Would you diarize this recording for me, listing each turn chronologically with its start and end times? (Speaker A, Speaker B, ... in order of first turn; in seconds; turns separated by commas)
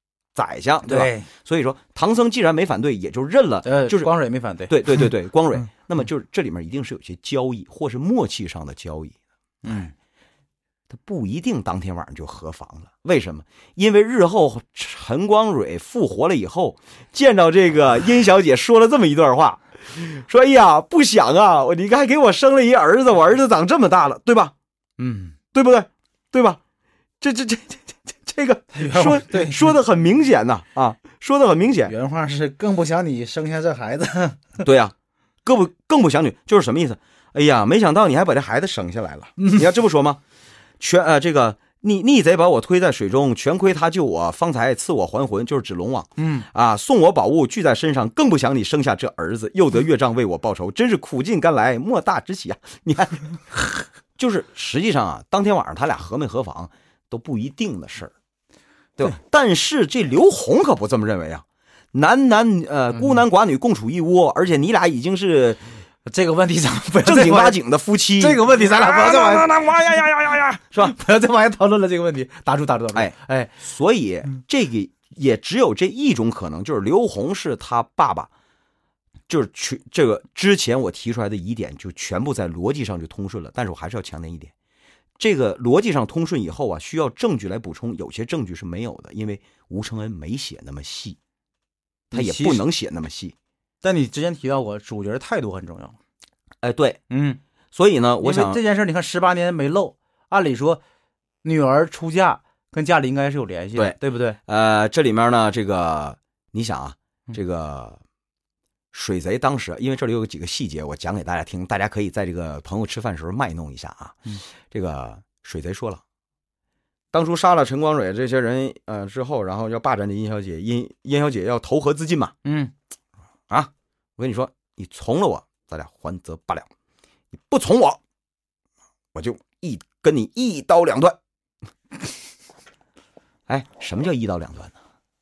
Speaker A: 0.3-4.1, Speaker B: 0.8-1.3, Speaker B: 3.6-4.7, Speaker A: 4.7-9.2, Speaker B: 9.6-9.9, Speaker A: 10.9-24.5, Speaker B: 25.0-25.3, Speaker A: 25.5-26.6, Speaker A: 27.2-31.9, Speaker B: 28.7-29.7, Speaker B: 31.9-34.4, Speaker A: 34.6-34.9, Speaker A: 35.4-40.2, Speaker B: 39.4-39.7, Speaker A: 40.8-58.1, Speaker B: 46.2-46.5, Speaker A: 59.0-65.6, Speaker B: 62.9-63.2, Speaker B: 66.0-67.6, Speaker A: 67.0-70.9, Speaker B: 68.2-69.5, Speaker B: 70.8-73.5, Speaker A: 72.9-78.3, Speaker A: 79.3-84.5, Speaker A: 85.2-91.2, Speaker A: 92.1-93.3, Speaker B: 92.1-92.6, Speaker B: 93.8-96.0, Speaker A: 96.6-97.0, Speaker B: 97.1-97.4, Speaker A: 97.7-98.6, Speaker B: 98.2-100.8, Speaker B: 101.4-104.4, Speaker A: 103.7-108.0, Speaker A: 108.9-116.0, Speaker A: 117.1-122.3, Speaker B: 122.4-122.7, Speaker A: 123.5-126.7, Speaker A: 127.3-128.0, Speaker A: 129.1-131.2, Speaker A: 133.5-134.7